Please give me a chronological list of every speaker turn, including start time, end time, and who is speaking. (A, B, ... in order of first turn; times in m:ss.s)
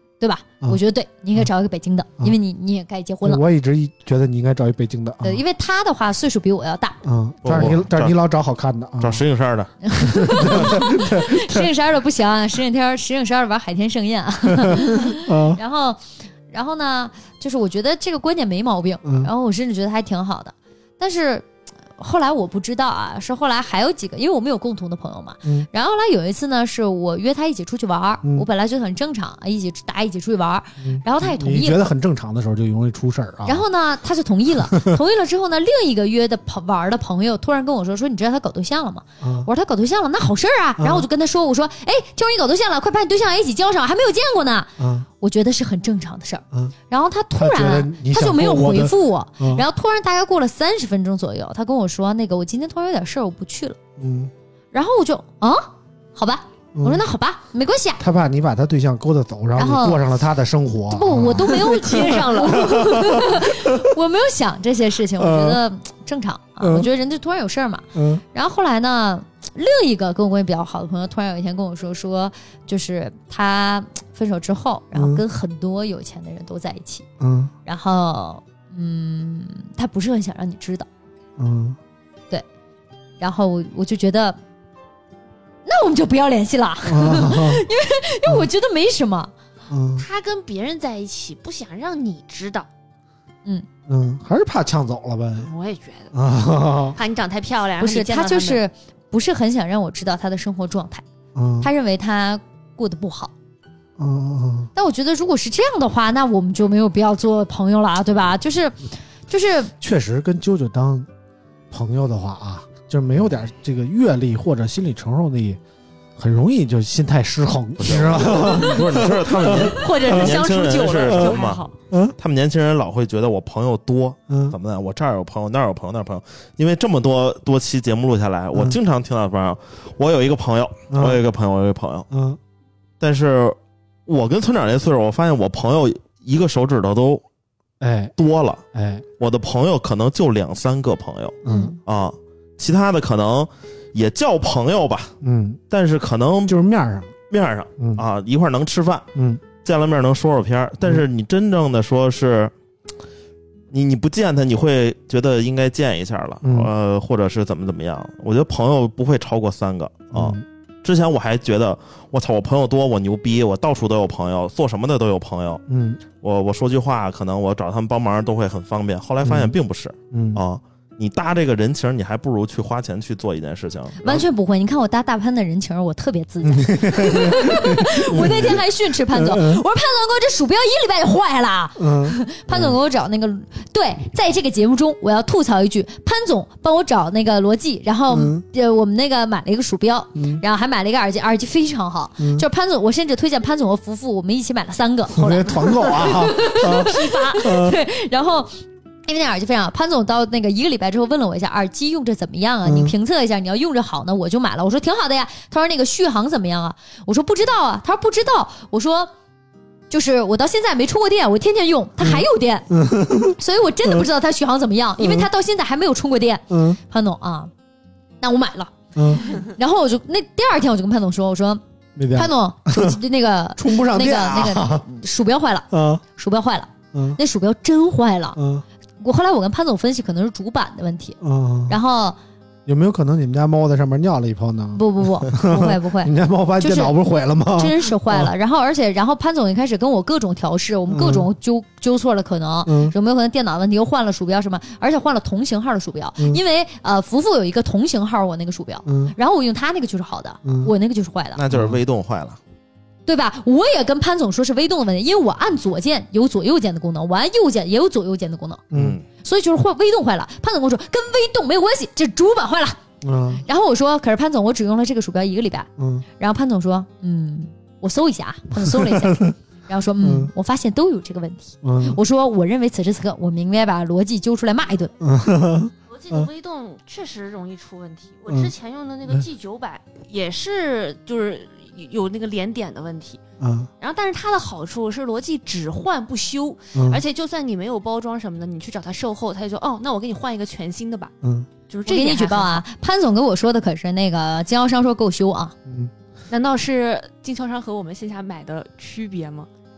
0:00.2-0:03.4 A
0:03.2-0:05.4 B
0:05.2-0:07.0 A
0:07.0-0:09.2 B
0:07.4-0:08.2 C
0:09.0-0:09.7 C
0:09.9-0:31.9 A
0:10.0-0:11.7 B
0:10.3-0:10.7 C
0:14.5-0:15.6 B
0:19.0-0:19.3 B
0:30.8-0:33.7 B
0:33.4-0:53.8 A
0:34.7-0:35.0 B
0:39.2-0:39.5 B
0:40.8-0:41.1 B
0:44.8-0:45.1 B
0:47.3-0:49.6 B
0:54.0-0:54.3 B
0:54.7-0:58.0 A
0:56.8-0:57.0 B
0:58.0-1:03.7 B
0:59.6-1:00.0 A
1:00.9-1:17.1 A
1:01.4-1:03.2 D
1:05.2-1:05.6 B
1:06.6-1:06.9 B
1:08.0-1:08.2 B
1:14.9-1:15.2 B
1:17.2-1:17.5 B
1:17.7-1:20.9 A
1:21.4-1:21.8 B
1:23.2-1:24.4 A
1:25.6-1:29.3 A
1:26.8-1:27.6 B
1:29.7-1:30.1 B
1:30.0-1:32.7 D
1:33.9-1:35.5 B
1:35.4-1:36.1 D
1:36.1-1:37.0 B
1:37.0-1:38.6 D
1:37.8-1:41.0 A
1:41.4-1:41.7 B
1:41.6-1:43.3 A
1:44.0-1:44.7 B
1:44.8-1:49.7 A
1:49.8-1:51.1 B
1:51.7-1:55.6 B
1:56.2-2:00.4 B
1:57.8-2:01.6 C
1:58.4-1:58.7 D
1:59.4-2:01.7 D
2:01.1-2:02.2 B
2:02.2-2:12.1 C
2:04.3-2:04.6 B
2:10.9-2:11.2 B
2:12.1-2:12.4 B
2:13.0-2:17.2 C
2:17.8-2:18.1 B
2:18.2-2:18.6 C
2:18.7-2:19.0 B
2:19.2-2:25.2 C
2:21.4-2:21.8 B
2:21.5-2:21.8 A
2:25.2-2:25.6 B
2:25.7-2:26.6 C
2:26.5-2:27.1 B
2:27.3-2:29.1 C
2:29.2-2:29.4 B
2:29.6-2:32.5 C
2:33.7-2:45.6 C
2:36.4-2:36.7 B
2:40.1-2:40.4 B
2:45.7-2:46.0 B
2:46.2-2:54.2 C
2:49.2-2:49.6 B
2:50.1-2:50.4 B
2:54.0-3:29.1 A
2:56.4-2:59.6 B
3:01.8-3:02.8 B
3:08.1-3:08.4 B
3:10.2-3:10.4 B
3:12.2-3:12.5 B
3:15.1-3:17.8 B
3:16.0-3:17.4 D
3:22.6-3:23.0 B
3:29.9-3:32.7 A
3:32.0-3:34.0 B
3:33.4-3:37.5 A
3:35.0-3:35.3 B
3:36.5-3:36.8 B
3:38.2-3:41.6 A
3:39.0-3:39.3 B
3:42.0-3:43.0 B
3:42.1-3:48.4 A
3:43.6-3:44.9 B
3:45.7-3:46.0 B
3:46.9-3:47.2 B
3:48.4-3:48.6 B
3:49.0-3:52.2 A
3:51.2-3:51.8 B
3:52.7-3:58.3 B
3:54.8-3:57.0 A
3:57.5-4:11.4 A
4:00.9-4:01.3 B
4:02.7-4:03.0 B
4:08.9-4:09.2 B
4:10.4-4:10.7 B
4:11.4-4:12.4 C
4:11.5-4:11.8 B
4:13.1-4:18.6 A
4:18.7-4:19.0 B
4:18.7-4:19.0 C
4:19.2-4:22.8 A
4:23.0-4:23.4 B
4:23.4-4:35.0 A
4:25.8-4:26.0 B
4:28.6-4:29.3 B
4:30.0-4:30.3 B
4:31.6-4:32.0 B
4:35.0-4:36.3 B
4:35.9-4:43.2 D
4:38.3-4:38.5 B
4:43.4-4:43.7 B
4:43.8-4:51.1 D
4:46.8-4:47.0 B
4:51.2-4:51.5 B
4:51.7-4:52.6 D
4:51.9-4:55.5 A
4:55.7-4:55.9 B
4:56.3-4:59.5 D